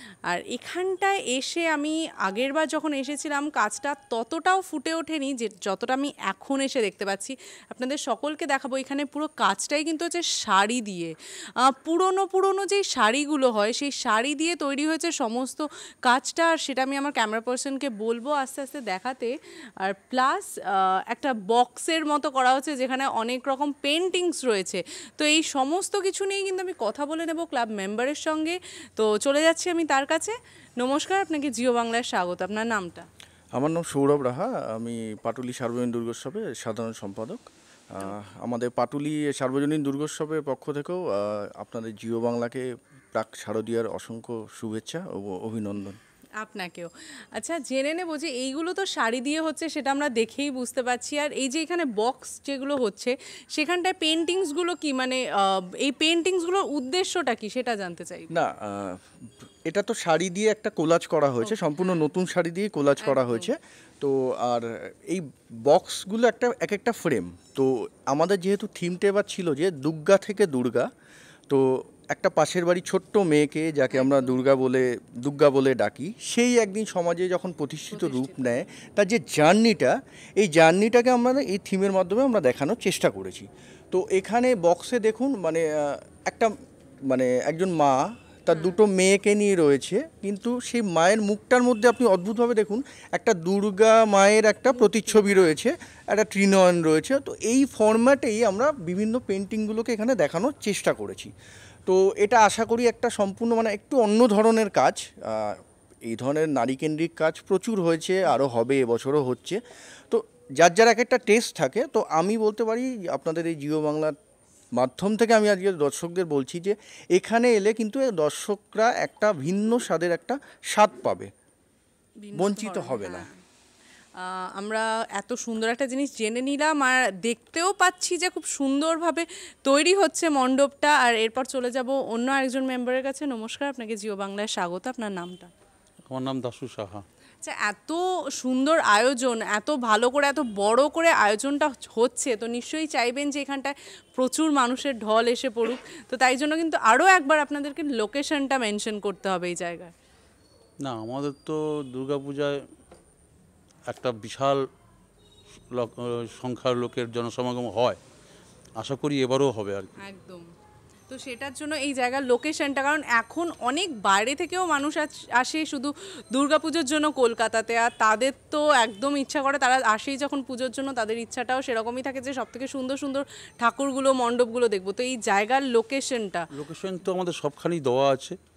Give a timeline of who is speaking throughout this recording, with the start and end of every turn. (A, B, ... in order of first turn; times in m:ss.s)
0:00.3-0:33.1 A
0:33.6-0:46.0 B
0:46.4-0:58.3 A
0:58.3-0:59.1 B
0:59.6-1:10.9 B
1:01.4-1:02.0 A
1:03.0-1:03.5 A
1:11.5-1:26.5 B
1:13.9-1:14.4 A
1:17.9-1:18.6 A
1:27.1-1:41.3 B
1:28.5-1:28.8 A
1:34.7-1:35.5 A
1:41.9-1:49.6 B
1:50.1-1:54.2 B
1:54.8-2:01.3 B
2:02.2-2:03.3 A
2:02.4-2:03.3 B
2:04.2-2:15.5 A
2:16.0-2:17.0 C
2:17.4-2:29.9 A
2:30.8-2:32.6 C
2:33.9-2:34.6 C
2:35.7-2:38.0 C
2:38.8-2:40.0 C
2:40.0-2:40.5 A
2:41.1-2:56.5 A
2:56.5-2:58.4 C